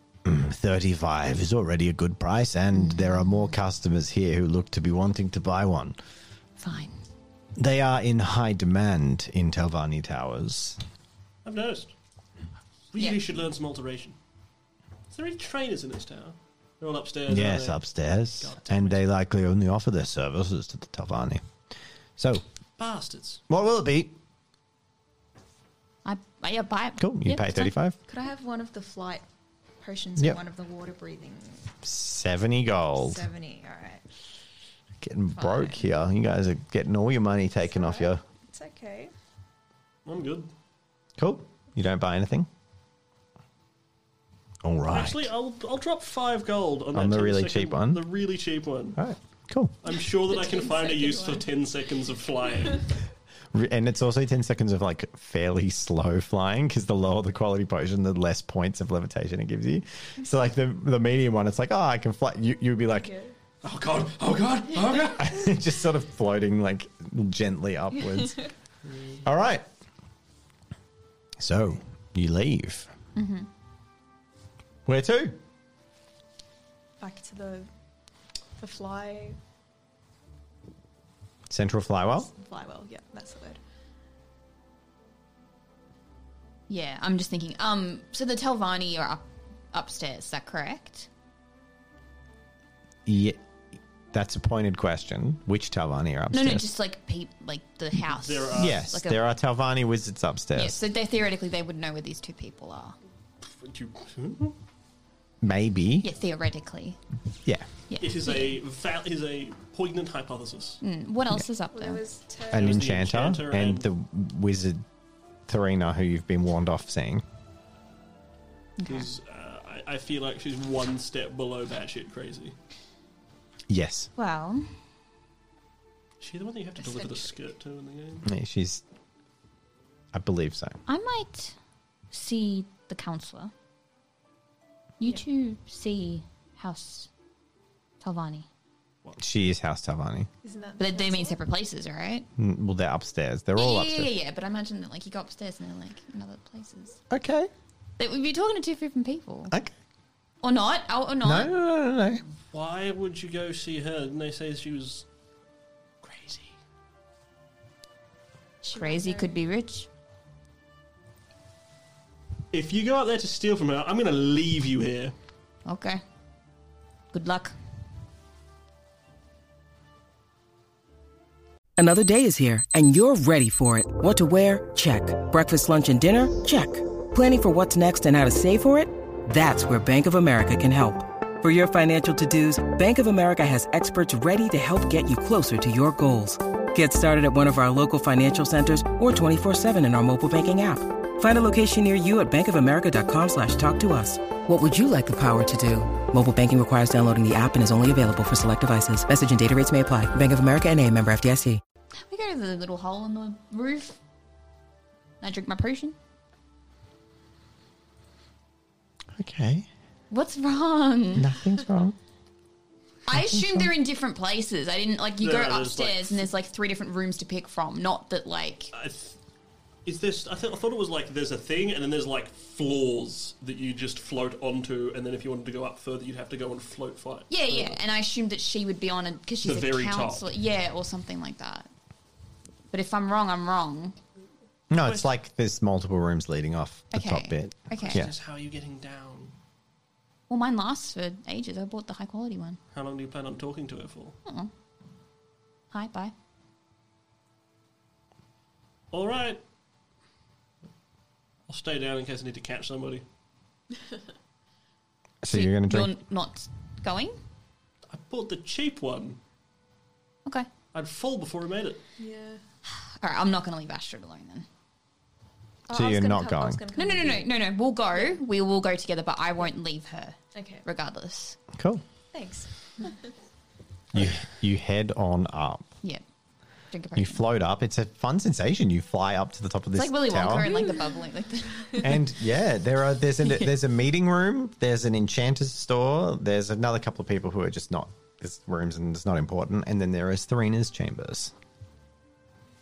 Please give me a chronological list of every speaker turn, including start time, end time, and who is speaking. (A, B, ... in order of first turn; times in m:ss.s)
0:00.2-0:06.0 A
0:02.7-0:03.5 B
0:06.6-0:06.9 B
0:07.6-0:10.8 A
0:11.4-0:11.9 C
0:12.9-0:14.2 C
0:13.0-0:13.2 B
0:15.1-0:19.0 C
0:17.3-0:21.4 A
0:22.2-0:22.4 A
0:22.8-0:23.4 C
0:23.5-0:24.2 A
0:26.0-0:27.7 B
0:27.0-0:28.0 A
0:28.0-0:29.2 D
0:29.8-0:31.7 D
0:31.8-0:33.3 A
0:33.0-0:34.1 D
0:35.0-0:38.2 A
0:35.4-0:35.8 D
0:37.7-0:39.1 D
0:40.0-0:40.5 C
0:41.2-0:42.5 A
0:44.6-0:45.3 A
0:44.9-0:49.0 C
0:46.9-0:48.0 A
0:49.0-0:49.8 A
0:49.8-0:52.9 C
0:50.3-0:51.5 D
0:53.5-1:03.1 A
1:02.9-1:03.3 D
1:03.6-1:05.4 C
1:05.1-1:08.5 A
1:08.9-1:09.2 C
1:09.2-1:09.6 A
1:11.4-1:12.9 A
1:13.2-1:13.5 B
1:14.8-1:15.4 A
1:17.0-1:17.7 D
1:18.6-1:19.4 D
1:21.5-1:22.3 A
1:22.2-1:23.6 D
1:26.7-1:31.1 B
1:33.0-1:33.4 A
1:34.1-1:36.7 A
1:36.3-1:39.2 B
1:38.1-1:38.8 C
1:38.5-1:40.8 A
1:40.5-1:43.0 B
1:43.4-1:44.6 C
1:45.4-1:46.1 A
1:46.0-1:47.0 B
1:47.9-1:48.6 B
1:48.0-1:50.8 C
1:50.8-1:52.0 B
1:51.7-1:52.7 D
1:52.5-1:54.8 A
1:52.5-1:53.9 C
1:55.5-1:57.2 A
1:58.8-1:59.1 B
1:58.8-2:02.5 C
2:03.7-2:04.1 A
2:04.2-2:04.7 B
2:06.2-2:08.3 C
2:06.8-2:07.3 B
2:08.2-2:08.8 A
2:10.1-2:10.8 A
2:10.9-2:11.6 B
2:12.1-2:13.5 B
2:15.0-2:17.1 B
2:18.0-2:18.5 B
2:19.2-2:20.3 A
2:20.4-2:21.4 D
2:20.8-2:22.3 B
2:22.4-2:24.1 A
2:23.6-2:27.0 B
2:27.1-2:27.5 A
2:28.0-2:29.5 B
2:30.4-2:31.5 B
2:31.2-2:32.2 A
2:32.5-2:35.0 C
2:36.0-2:36.5 C
2:38.6-2:39.4 D
2:38.6-2:39.9 B
2:42.5-2:45.1 C
2:45.6-2:46.0 B
2:47.1-2:47.5 B
2:51.8-3:21.6 E
3:22.0-3:24.0 B
3:25.2-3:26.0 B
3:29.2-3:29.7 A
3:30.1-3:31.4 B
3:31.2-3:32.0 A
3:33.0-3:38.7 B
3:33.1-3:33.7 A
3:35.2-3:36.3 C
3:38.7-3:39.2 C
3:39.8-3:47.8 C
3:47.3-3:51.7 B
3:49.4-3:50.2 C
3:52.7-3:54.0 B
3:54.7-3:58.1 A
3:54.8-3:55.1 C
3:56.9-3:58.0 B
3:57.7-3:59.3 C
4:00.3-4:02.6 B
4:02.7-4:04.2 C
4:04.2-4:04.5 B
4:05.7-4:06.1 B
4:08.9-4:09.4 C
4:11.5-4:13.0 C
4:15.2-4:15.9 A
4:15.3-4:17.2 B
4:17.9-4:19.2 C
4:20.7-4:21.8 C
4:22.0-4:22.4 D
4:22.7-4:24.5 B
4:25.7-4:27.3 D
4:25.7-4:26.6 A
4:26.7-4:31.4 B
4:30.3-4:30.6 D
4:31.5-4:31.8 A
4:32.1-4:32.9 D
4:33.9-4:35.7 A
4:36.7-4:37.2 B
4:37.0-4:40.5 A
4:39.7-4:42.0 B
4:40.3-4:41.0 D
4:41.8-4:51.3 A